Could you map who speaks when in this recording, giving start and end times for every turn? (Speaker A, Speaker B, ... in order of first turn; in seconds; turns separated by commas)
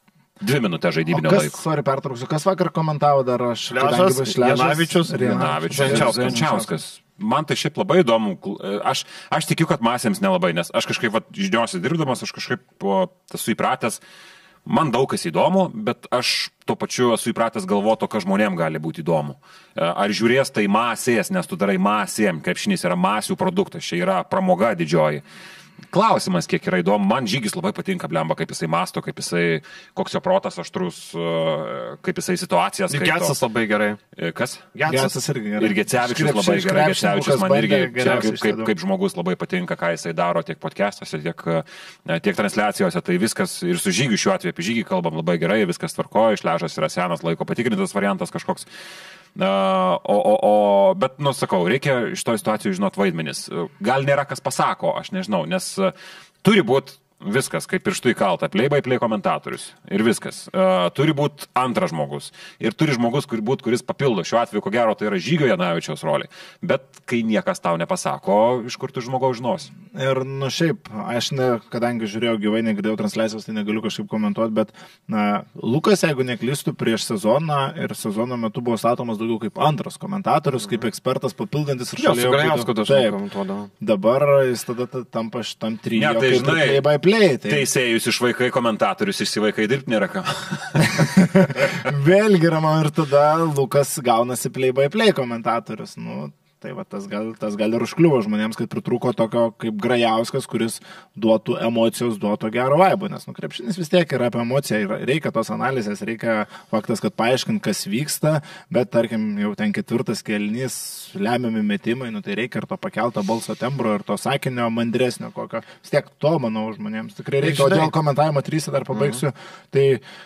Speaker A: 0.4-1.6, Speaker B: 1.1-6.7, Speaker C: 3.7-6.4, Speaker A: 5.1-14.0, Speaker A: 14.7-25.2, Speaker A: 25.9-33.3, Speaker C: 32.9-34.0, Speaker A: 34.1-34.7, Speaker C: 34.7-35.1, Speaker B: 34.9-38.7, Speaker A: 35.6-48.6, Speaker A: 49.4-69.7, Speaker B: 69.9-83.1, Speaker C: 82.0-83.7, Speaker B: 83.8-87.7, Speaker A: 85.9-86.9, Speaker A: 87.4-91.7, Speaker B: 90.9-120.0, Speaker C: 117.4-117.9, Speaker C: 118.9-119.2